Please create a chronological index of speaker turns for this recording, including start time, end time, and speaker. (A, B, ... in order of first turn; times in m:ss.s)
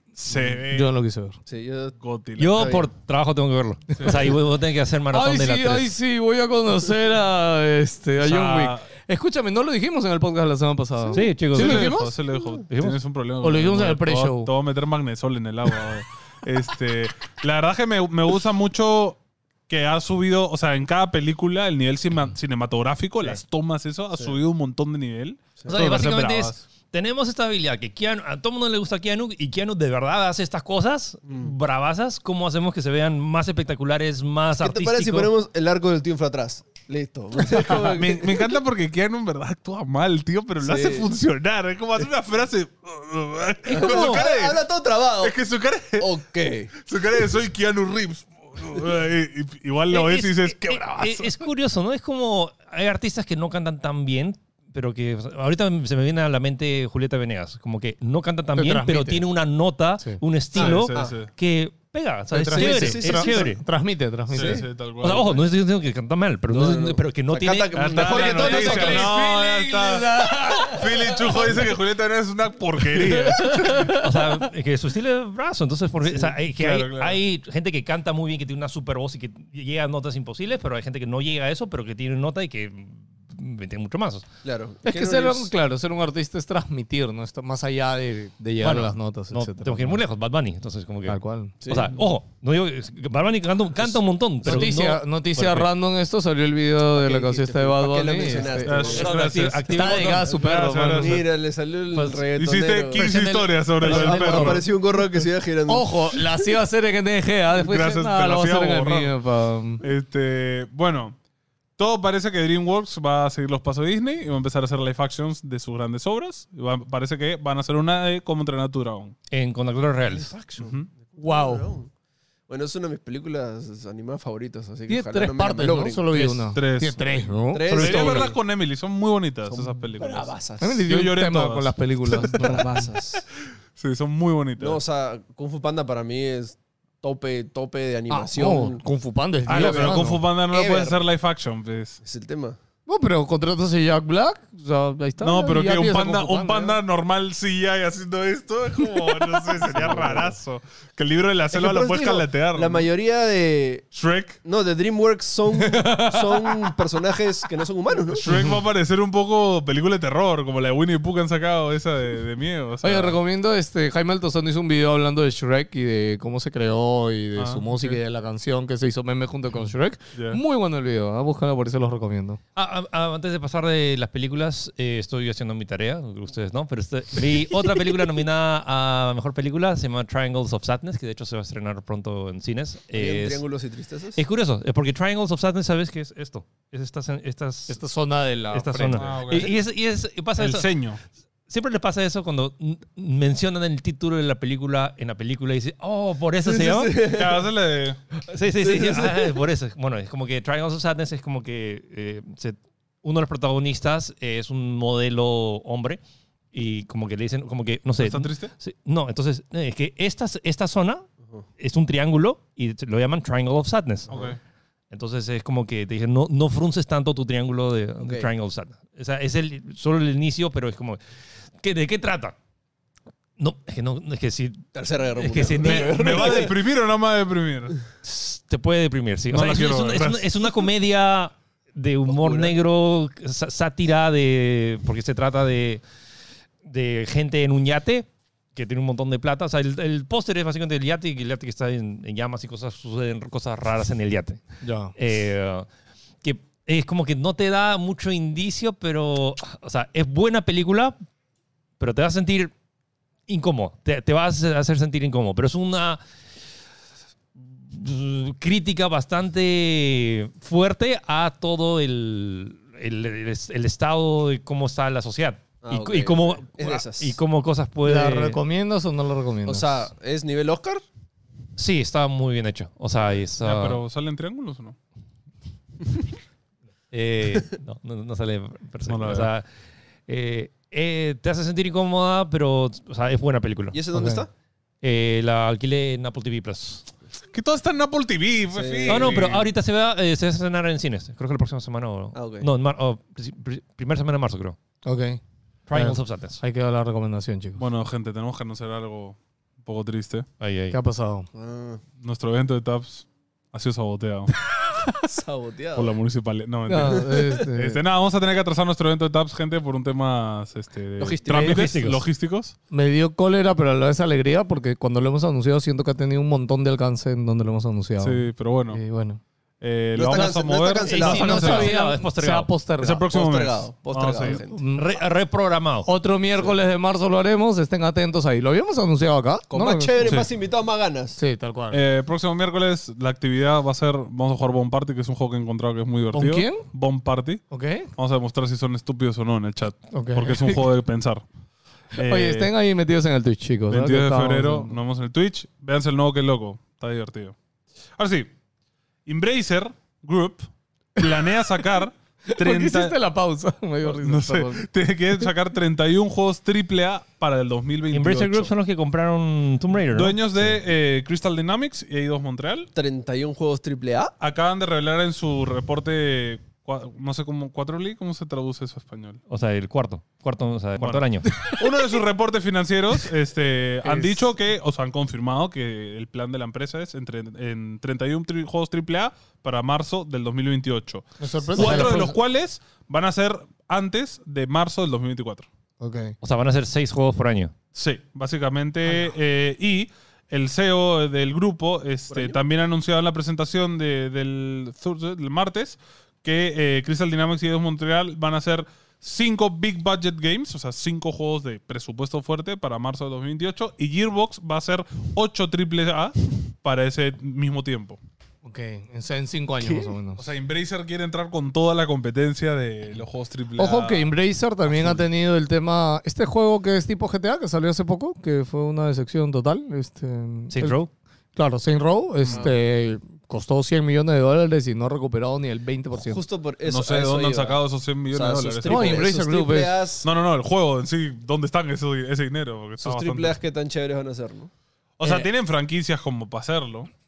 0:00.2-0:00.9 A
0:00.3-0:01.4 B
0:01.5-0:02.0 C
0:02.0-0:02.8 A
0:02.4-0:05.9 D
0:02.5-0:02.9 C
0:05.1-0:12.1 B
0:08.2-0:08.8 A
0:11.1-0:11.9 D
0:11.5-0:26.6 A
0:12.7-0:13.0 D
0:13.4-0:14.5 B
0:25.7-0:35.3 D
0:31.3-0:31.5 C
0:34.6-0:38.4 C
0:37.7-0:44.6 A
0:40.6-0:41.1 C
0:43.7-0:44.3 D
0:43.7-0:45.4 C
0:45.2-0:46.1 A
0:46.0-0:46.7 C
0:46.8-0:51.4 A
0:49.9-1:03.6 D
0:58.6-0:59.2 B
1:00.5-1:01.1 C
1:00.6-1:01.3 A
1:02.3-1:04.6 B
1:02.3-1:03.6 C
1:04.3-1:05.4 A
1:04.3-1:04.6 C
1:05.0-1:09.1 D
1:06.5-1:09.1 C
1:07.7-1:13.9 A
1:08.3-1:11.7 B
1:12.9-1:14.1 B
1:13.8-1:24.3 D
1:16.1-1:17.2 A
1:24.4-1:25.5 C
1:24.8-1:30.0 B
1:28.6-1:35.7 D
1:31.1-1:31.5 B
1:31.6-1:31.9 C
1:34.4-1:39.0 B
1:36.9-1:39.1 C
1:38.6-1:41.2 A
1:38.8-1:40.3 D
1:39.7-1:41.2 B
1:40.9-1:43.0 C
1:42.4-1:44.6 A
1:43.0-1:44.6 B
1:43.8-1:46.2 C
1:45.7-1:49.8 B
1:47.5-1:49.1 A
1:49.8-1:51.2 A
1:51.8-1:59.1 A
1:59.3-2:00.3 D
2:00.1-2:01.9 C
2:00.6-2:00.9 A
2:01.2-2:01.7 B
2:02.5-2:06.0 C
2:04.9-2:08.3 B
2:06.1-2:06.4 D
2:06.2-2:10.3 A
2:07.5-2:08.4 C
2:10.0-2:10.8 C
2:10.6-2:12.9 B
2:10.8-2:12.5 A
2:12.3-2:13.2 C
2:13.8-2:14.8 A
2:14.6-2:18.8 C
2:18.1-2:20.2 B
2:19.5-2:22.0 A
2:19.5-2:21.0 C
2:22.0-2:22.6 C
2:22.9-2:26.8 B
2:25.2-2:32.9 A
2:29.0-2:30.2 B
2:29.7-2:30.3 C
2:31.5-2:33.8 C
2:33.9-2:34.4 A
2:34.4-2:38.2 C
2:38.2-2:43.2 A
2:38.3-2:38.6 B
2:42.8-2:52.4 B
2:47.4-2:48.0 A
2:50.1-2:50.4 A
2:52.5-3:03.4 D
3:02.9-3:04.2 C
3:04.2-3:07.8 D
3:07.7-3:09.1 B
3:08.5-3:10.7 D
3:09.0-3:09.6 A
3:10.4-3:11.0 A
3:11.5-3:17.0 D
3:16.4-3:17.5 C
3:17.0-3:18.0 A
3:18.3-3:26.0 D
3:18.6-3:19.4 C
3:26.5-3:31.1 D
3:28.0-3:28.5 A
3:31.6-3:34.1 D
3:34.1-3:34.3 C
3:34.1-3:34.4 A
3:34.9-3:41.0 D
3:38.0-3:38.3 C
3:41.6-3:42.3 D
3:43.4-3:46.4 D
3:44.7-3:46.5 C
3:45.5-3:47.8 A
3:48.0-3:55.8 D
3:49.3-3:50.4 A
3:52.1-3:52.5 C
3:56.6-4:04.4 D
4:04.6-4:04.9 B
4:05.0-4:05.7 D
4:06.2-4:11.0 D
4:11.8-4:12.5 D
4:13.3-4:16.0 D
4:17.6-4:28.4 D
4:25.6-4:27.2 C
4:27.8-4:29.8 B
4:29.4-4:30.8 C
4:31.6-4:33.8 D
4:33.4-4:34.8 A
4:36.9-4:39.4 D
4:38.9-4:39.3 A
4:40.1-4:43.8 D
4:43.7-4:44.3 C
4:43.9-4:44.2 B
4:44.8-4:46.9 D
4:47.3-4:49.5 A
4:48.5-4:49.3 C
4:48.9-4:54.6 D
4:52.1-4:52.5 C
4:54.8-4:55.2 B
4:55.7-4:56.4 D
4:55.7-4:57.6 B
4:57.6-5:00.3 A
5:00.4-5:00.8 D
5:00.7-5:01.3 B
5:01.3-5:01.8 C
5:02.0-5:04.3 A
5:05.0-5:05.9 C
5:05.7-5:12.5 A
5:06.7-5:07.8 B
5:06.8-5:07.4 C
5:11.0-5:11.6 C
5:11.3-5:12.0 D
5:12.7-5:19.2 B
5:18.0-5:18.8 A
5:19.6-5:21.7 A
5:19.9-5:21.6 C
5:20.8-5:22.5 D
5:21.0-5:23.0 B
5:22.8-5:24.4 A
5:23.1-5:24.6 C
5:24.2-5:24.9 B
5:24.7-5:25.9 D
5:25.8-5:30.0 B
5:29.5-5:31.2 C
5:30.0-5:30.3 A
5:31.2-5:31.8 B
5:31.7-5:37.4 A
5:36.1-5:36.6 B
5:37.5-5:37.9 B
5:38.0-5:41.2 A
5:39.9-5:40.6 B
5:41.9-5:42.5 A
5:41.9-5:44.8 B
5:43.7-5:47.4 A
5:48.0-5:48.3 A
5:49.0-5:53.0 A
5:52.3-5:54.6 B
5:53.8-5:58.5 A
5:57.9-6:00.5 D
5:59.9-6:02.7 A
6:02.7-6:04.1 C
6:04.2-6:09.2 A
6:09.3-6:11.3 D
6:10.8-6:25.5 A
6:11.3-6:11.6 B
6:13.8-6:14.2 B
6:21.2-6:22.1 B
6:25.8-6:26.1 B
6:26.2-6:27.5 D
6:27.7-6:48.0 A
6:32.1-6:32.4 C
6:48.4-6:50.2 B
6:50.2-6:54.1 A
6:53.6-7:00.8 B
6:54.7-6:55.0 A
7:00.5-7:00.9 D
7:01.3-7:06.2 B
7:05.9-7:10.1 C
7:06.6-7:09.0 A
7:08.6-7:09.8 B
7:10.0-7:13.3 A
7:12.8-7:14.5 C
7:15.0-7:16.9 A
7:15.0-7:15.3 B